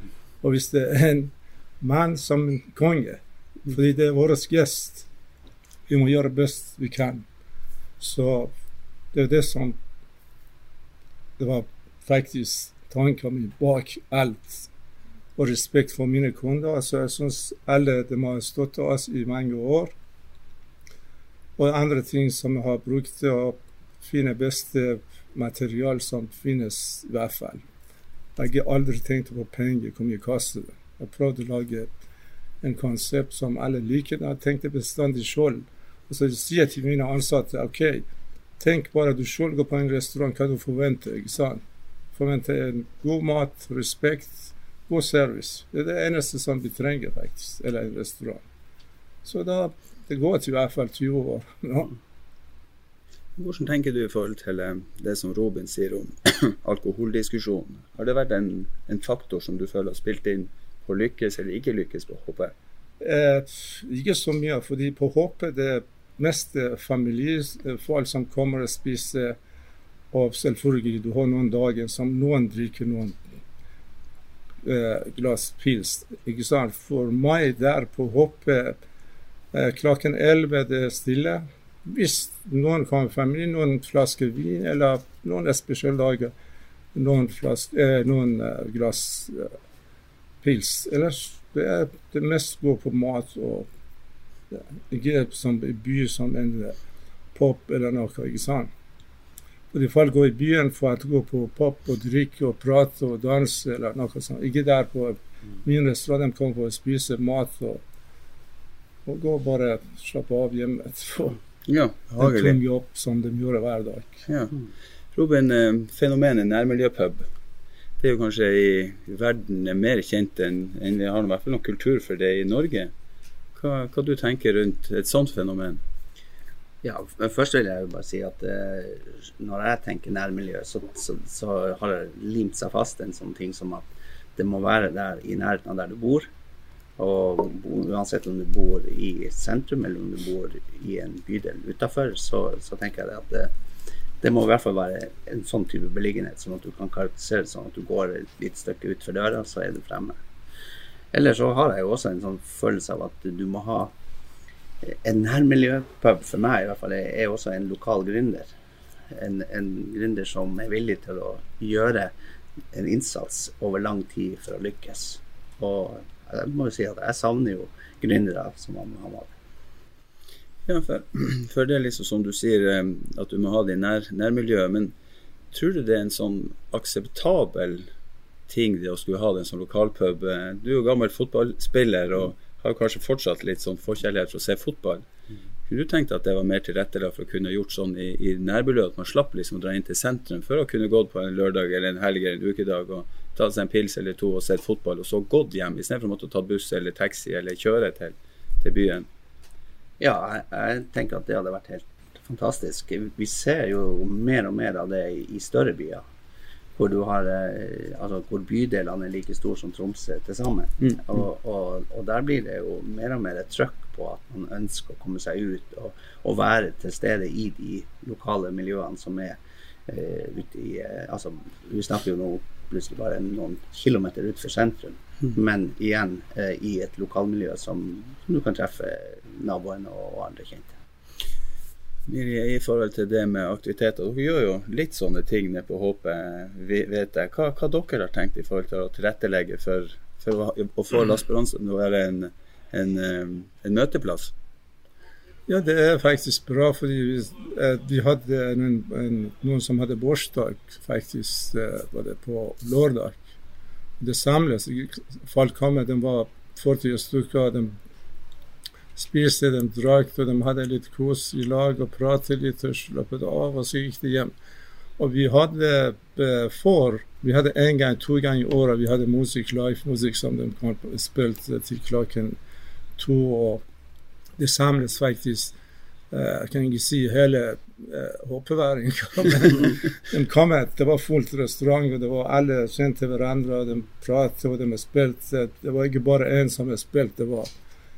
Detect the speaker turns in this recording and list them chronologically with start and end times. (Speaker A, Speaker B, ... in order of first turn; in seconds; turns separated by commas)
Speaker A: 0.4-5.1, Speaker A: 5.9-7.3, Speaker A: 8.0-8.5, Speaker A: 9.1-9.8, Speaker A: 11.4-14.7, Speaker A: 15.4-19.9, Speaker A: 21.6-27.6, Speaker A: 28.4-32.0, Speaker A: 32.6-38.0, Speaker A: 38.6-41.6, Speaker A: 42.1-48.5, Speaker A: 49.2-51.9, Speaker B: 53.4-62.5, Speaker A: 63.0-69.4, Speaker A: 70.1-73.2, Speaker A: 74.6-78.8, Speaker A: 79.5-86.3, Speaker A: 86.9-89.5, Speaker A: 90.4-93.7, Speaker A: 94.5-96.8, Speaker A: 97.3-98.7, Speaker A: 99.7-107.8, Speaker A: 109.1-111.4, Speaker B: 111.7-112.6, Speaker A: 112.2-114.3, Speaker B: 114.3-114.5, Speaker B: 115.2-117.3, Speaker B: 118.0-122.9, Speaker B: 123.5-125.8, Speaker C: 126.8-136.3, Speaker C: 137.0-143.5, Speaker C: 144.2-150.2, Speaker C: 151.1-153.9, Speaker C: 154.8-158.5, Speaker C: 159.1-162.1, Speaker C: 162.7-169.3, Speaker B: 170.7-174.9, Speaker B: 175.5-177.9, Speaker B: 178.5-185.1, Speaker B: 185.7-199.1, Speaker C: 200.0-206.0, Speaker C: 206.8-219.4, Speaker C: 219.9-230.8, Speaker B: 232.1-244.3, Speaker A: 245.5-253.2, Speaker A: 254.0-257.8, Speaker A: 259.0-264.3, Speaker A: 265.0-272.4, Speaker A: 273.0-273.6, Speaker A: 274.4-275.6, Speaker A: 276.1-287.5